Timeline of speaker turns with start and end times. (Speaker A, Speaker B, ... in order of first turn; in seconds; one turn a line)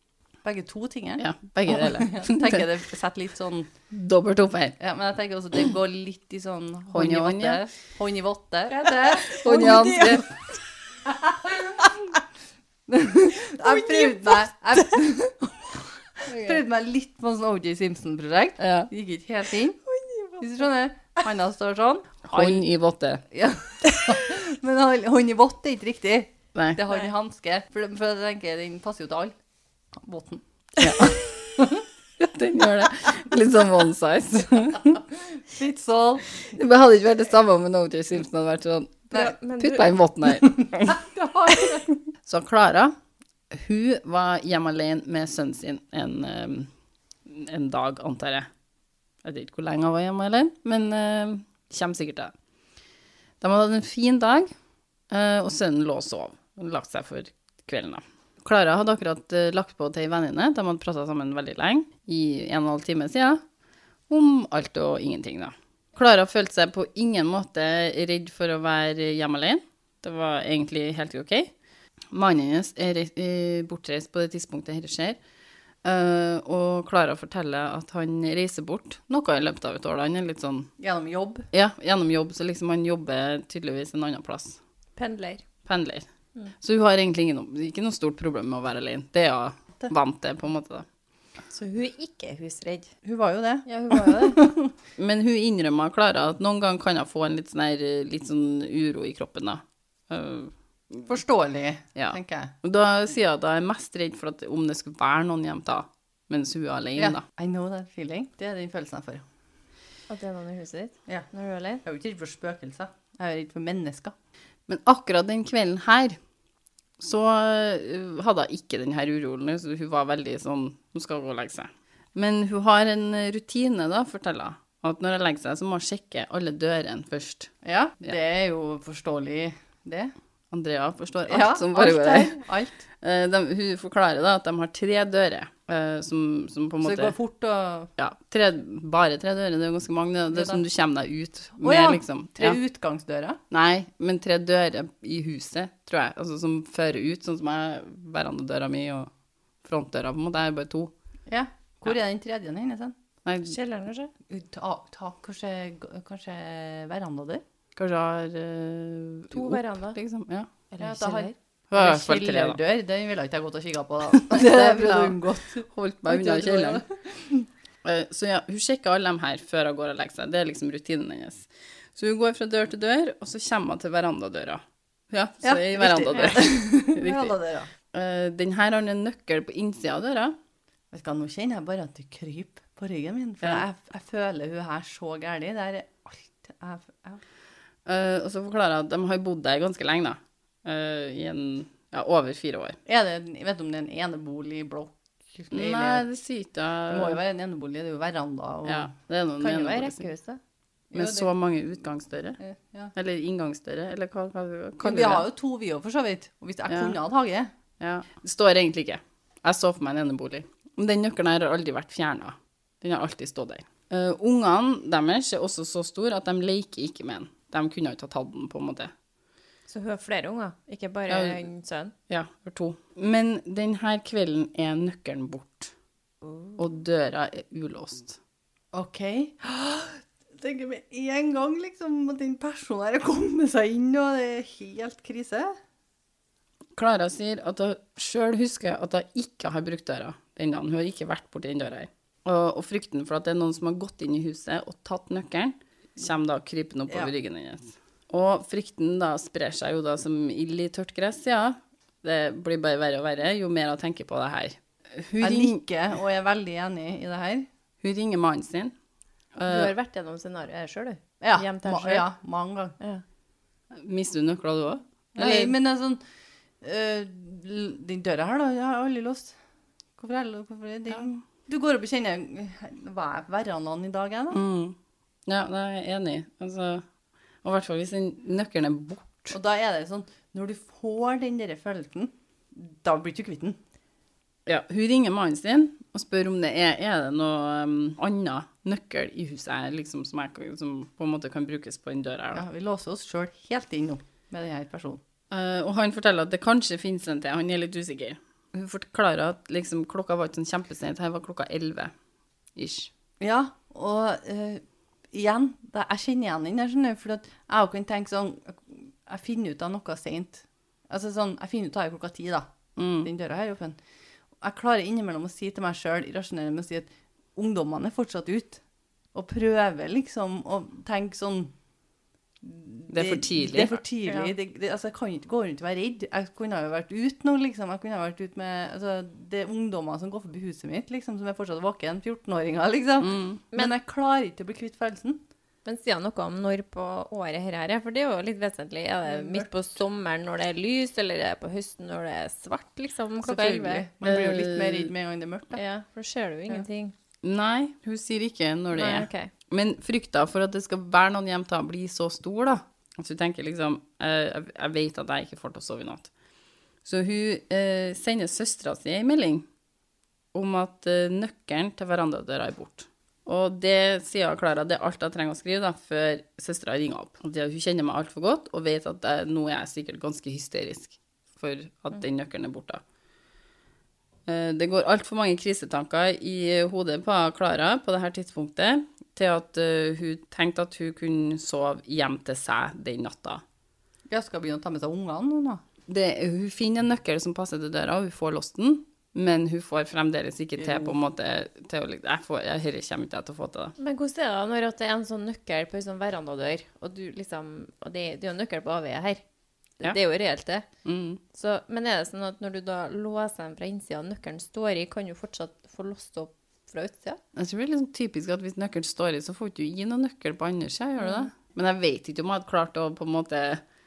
Speaker A: 0.4-3.7
Speaker B: 1.2-2.6
Speaker B: 3.9-4.8
Speaker A: 4.8-10.2
Speaker B: 6.9-7.6
Speaker C: 8.7-10.3
Speaker B: 9.4-10.2
Speaker A: 11.1-12.1
Speaker A: 12.9-19.8
Speaker C: 13.6-14.3
Speaker B: 16.2-16.6
Speaker B: 18.6-18.9
Speaker C: 19.9-20.4
Speaker A: 20.4-22.6
Speaker B: 22.3-23.2
Speaker A: 23.3-29.3
Speaker C: 23.8-24.2
Speaker B: 26.5-26.8
Speaker A: 29.9-30.4
Speaker B: 30.8-31.3
Speaker A: 31.6-31.8
Speaker B: 32.2-35.0
Speaker A: 35.1-36.3
Speaker B: 36.4-41.0
Speaker C: 39.1-39.9
Speaker A: 40.3-41.9
Speaker B: 41.9-42.9
Speaker B: 43.5-46.7
Speaker B: 47.3-48.5
Speaker B: 49.2-52.3
Speaker B: 53.4-54.5
Speaker B: 55.1-63.4
Speaker B: 64.1-71.5
Speaker B: 72.1-75.2
Speaker B: 75.8-80.7
Speaker A: 80.8-81.5
Speaker B: 81.5-84.6
Speaker C: 85.0-85.4
Speaker B: 85.6-86.0
Speaker B: 86.6-90.8
Speaker C: 91.5-92.9
Speaker A: 93.0-94.7
Speaker C: 93.7-94.5
Speaker B: 95.0-101.1
Speaker A: 101.1-102.5
Speaker B: 102.0-107.2
Speaker A: 107.0-109.2
Speaker C: 110.1-111.8
Speaker A: 111.8-114.1
Speaker B: 114.7-116.2
Speaker B: 117.0-127.5
Speaker A: 127.6-130.1
Speaker B: 130.5-132.4
Speaker A: 131.3-132.8
Speaker B: 133.0-137.1
Speaker A: 136.8-137.9
Speaker B: 138.0-142.6
Speaker A: 140.3-140.6
Speaker A: 141.6-143.4
Speaker B: 143.5-149.1
Speaker B: 149.6-150.9
Speaker A: 151.3-152.9
Speaker B: 153.2-153.5
Speaker C: 153.4-154.1
Speaker A: 154.3-157.4
Speaker B: 157.8-160.5
Speaker C: 159.3-160.0
Speaker C: 160.7-161.3
Speaker A: 160.8-167.5
Speaker B: 161.7-162.6
Speaker B: 164.1-166.8
Speaker B: 167.8-177.3
Speaker A: 175.4-177.7
Speaker B: 177.9-180.3
Speaker A: 180.9-187.2
Speaker B: 187.8-192.8
Speaker A: 192.8-196.0
Speaker B: 195.5-197.2
Speaker A: 196.9-198.9
Speaker B: 198.7-200.1
Speaker C: 199.4-200.4
Speaker A: 200.9-201.3
Speaker B: 200.9-202.4
Speaker A: 202.4-202.9
Speaker B: 202.9-205.2
Speaker A: 204.8-207.5
Speaker B: 206.7-207.0
Speaker B: 207.8-218.9
Speaker C: 219.7-221.9
Speaker B: 221.1-221.4
Speaker B: 222.1-225.7
Speaker C: 226.2-226.6
Speaker B: 226.6-228.2
Speaker A: 228.7-235.5
Speaker B: 236.7-255.6
Speaker A: 255.2-257.5
Speaker B: 257.8-258.7
Speaker B: 259.3-259.7
Speaker C: 259.5-262.0
Speaker A: 261.2-262.8
Speaker B: 263.7-265.5
Speaker A: 265.1-266.0
Speaker A: 266.6-269.3
Speaker A: 270.0-274.4
Speaker B: 274.3-274.8
Speaker B: 275.3-276.8
Speaker B: 277.4-279.3
Speaker A: 279.3-283.6
Speaker B: 284.4-292.4
Speaker A: 292.3-295.0
Speaker B: 295.3-301.9
Speaker B: 302.6-302.9
Speaker A: 303.2-312.5
Speaker B: 312.8-313.1
Speaker A: 313.0-313.8
Speaker A: 314.4-318.6
Speaker A: 319.1-321.5
Speaker A: 322.4-335.2
Speaker B: 322.9-323.8
Speaker C: 324.1-324.3
Speaker B: 333.0-333.4
Speaker C: 335.6-343.8
Speaker A: 339.1-339.5
Speaker A: 343.2-345.6
Speaker B: 344.0-344.9
Speaker C: 345.5-346.9
Speaker B: 347.2-356.1
Speaker C: 348.7-349.3
Speaker B: 356.8-359.4
Speaker B: 360.3-372.8
Speaker B: 374.2-383.4
Speaker A: 384.1-385.6
Speaker B: 385.9-393.7
Speaker A: 390.6-390.9
Speaker C: 393.8-399.2
Speaker C: 399.8-400.7
Speaker B: 400.8-401.2
Speaker C: 401.3-407.2
Speaker B: 407.3-413.6
Speaker C: 411.0-411.3